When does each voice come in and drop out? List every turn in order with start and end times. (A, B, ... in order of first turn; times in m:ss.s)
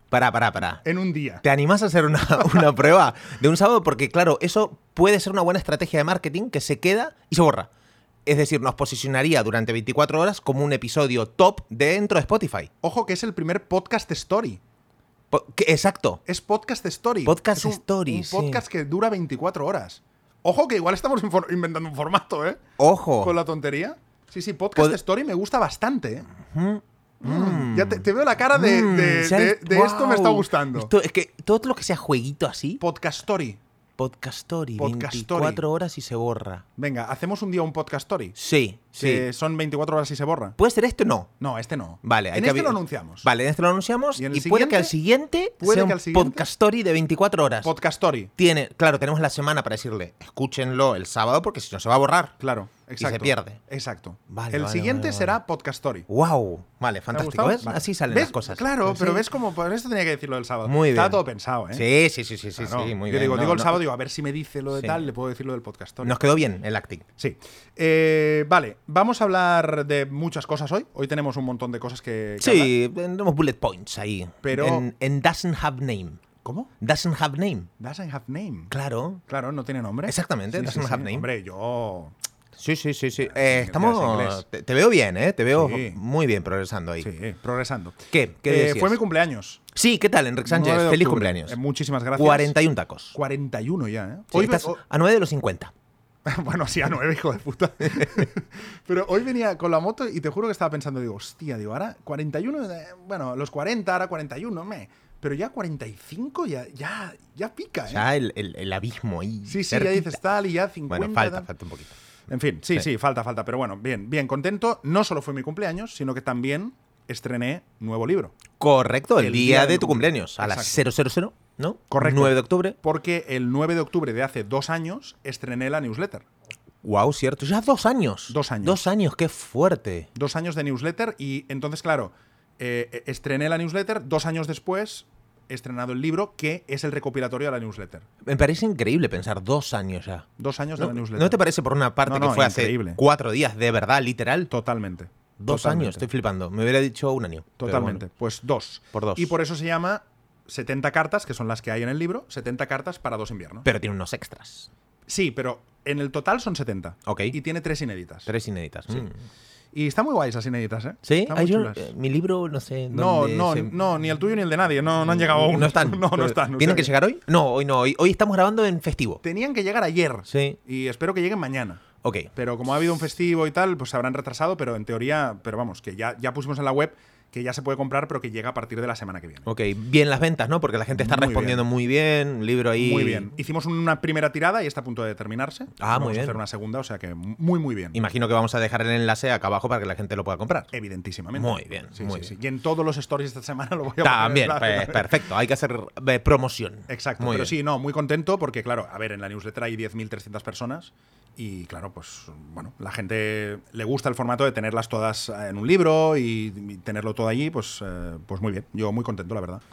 0:00.1-0:00.8 A
0:00.8-0:01.4 B
0:01.4-0:07.7 A
0:02.4-0:02.7 B
0:08.2-0:12.7 A
0:12.8-0:14.6 B
0:15.3-0:16.2 A
0:16.2-0:22.6 B
0:17.2-0:18.6 A
0:22.8-0:23.3 A
0:23.2-0:26.3 B
0:26.4-0:32.8 A
0:27.2-0:30.9 B
0:32.8-0:33.6 B
0:34.0-0:36.6 A
0:34.8-0:35.6 B
0:36.8-0:38.4 B
0:38.4-0:39.2 A
0:38.9-0:40.6 B
0:40.6-0:41.3 A
0:41.4-0:43.3 B
0:42.0-0:47.7 A
0:44.2-0:44.9 B
0:45.6-0:46.5 B
0:47.6-0:48.3 B
0:48.4-0:52.4 A
0:52.4-0:56.1 B
0:53.0-0:53.6 A
0:54.3-0:55.4 A
0:56.1-0:59.2 A
0:57.1-1:01.8 B
1:00.6-1:01.2 A
1:01.7-1:03.8 A
1:02.6-1:06.2 B
1:04.7-1:05.0 A
1:06.0-1:07.0 A
1:07.2-1:12.7 B
1:12.4-1:16.2 A
1:14.4-1:14.9 B
1:16.4-1:16.7 B
1:16.8-1:17.7 A
1:17.8-1:18.7 B
1:18.7-1:19.2 A
1:19.3-1:22.1 B
1:20.0-1:21.2 A
1:22.6-1:27.1 A
1:23.3-1:24.4 B
1:25.5-1:26.0 B
1:27.0-1:29.6 B
1:28.1-1:29.0 A
1:29.7-1:31.6 A
1:30.4-1:32.5 B
1:32.1-1:33.2 A
1:33.1-1:34.8 B
1:34.3-1:35.7 A
1:36.2-1:48.1 B
1:47.9-1:50.2 A
1:49.4-1:51.5 B
1:50.9-1:51.9 A
1:52.3-1:58.4 B
1:58.6-2:02.8 A
1:59.2-2:00.8 B
2:01.9-2:06.2 B
2:06.8-2:10.1 A
2:08.3-2:08.9 B
2:10.1-2:18.0 B
2:18.2-2:24.5 A
2:20.4-2:21.4 B
2:22.0-2:23.0 B
2:24.5-2:26.0 B
2:25.4-2:28.0 A
2:27.6-2:33.6 B
2:28.9-2:29.3 A
2:33.6-2:34.7 A
2:35.1-2:38.3 B
2:37.0-2:37.4 A
2:38.2-2:39.2 A
2:39.7-2:41.9 B
2:41.0-2:43.7 A
2:42.9-2:46.9 B
2:45.0-2:49.2 A
2:49.2-2:51.8 B
2:50.3-2:50.6 A
2:52.0-2:52.3 A
2:52.3-2:59.5 B
2:59.4-3:03.3 A
3:00.9-3:01.6 B
3:02.8-3:08.0 B
3:05.8-3:06.4 A
3:07.9-3:10.7 A
3:10.7-3:15.1 B
3:11.3-3:12.3 A
3:14.0-3:17.5 A
3:16.9-3:29.6 B